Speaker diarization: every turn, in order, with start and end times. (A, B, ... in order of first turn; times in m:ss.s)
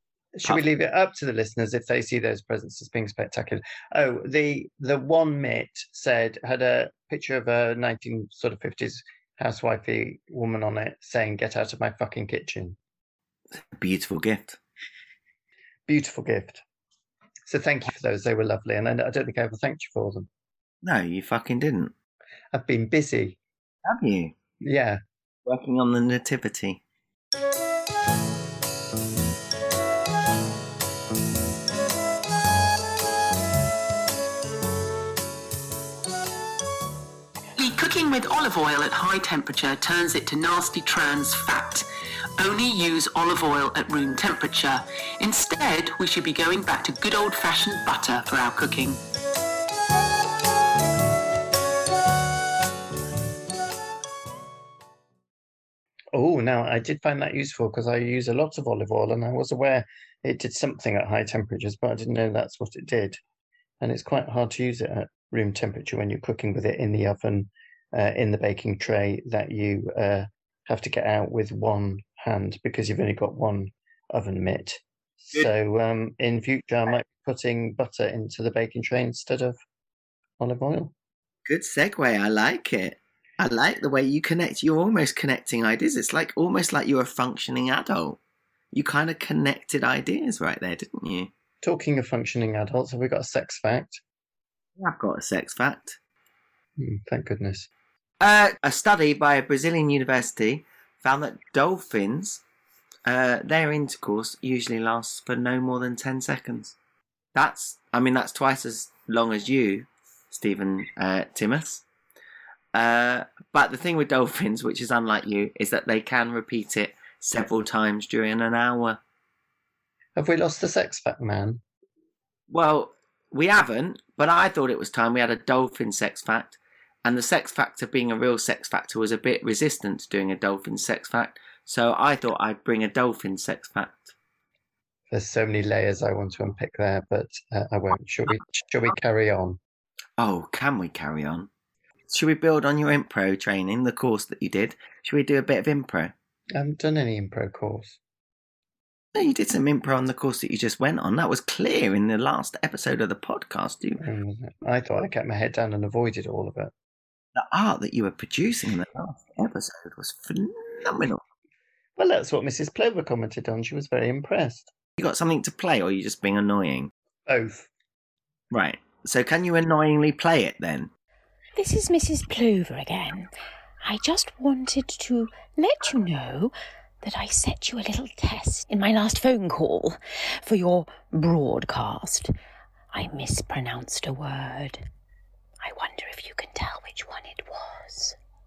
0:00.4-0:12.8 A
0:13.5-0:14.6 B
0:15.9-0:16.6 A
0:17.5-0:20.3 A
0:20.8-0:21.9 B
0:22.5-0:23.4 A
0:23.8-0:24.4 B
0:24.6-0:25.0 A
0:25.5-0:26.8 B
0:37.6-0:41.9 C
0:42.4-0:49.0 C
0:56.1-1:03.2 A
1:03.8-1:19.6 A
1:20.4-1:20.9 A
1:21.5-1:28.2 B
1:28.7-1:31.3 B
1:31.6-1:34.0 A
1:34.8-1:36.0 B
1:36.8-1:37.7 A
1:38.2-1:42.4 B
1:43.1-1:46.8 B
1:47.4-1:51.8 B
1:52.7-1:59.0 B
2:00.2-2:01.6 A
2:02.5-2:14.1 B
2:15.1-2:19.6 A
2:20.2-2:21.5 B
2:22.1-2:26.1 B
2:26.6-2:28.0 A
2:29.1-2:34.0 B
2:34.0-2:36.7 A
2:37.4-2:41.2 B
2:42.0-2:44.7 A
2:45.0-2:46.9 B
2:47.3-2:47.7 A
2:48.5-2:50.9 B
2:51.6-2:53.3 D
2:53.8-3:02.3 D
3:02.9-3:04.8 D
3:05.6-3:08.2 D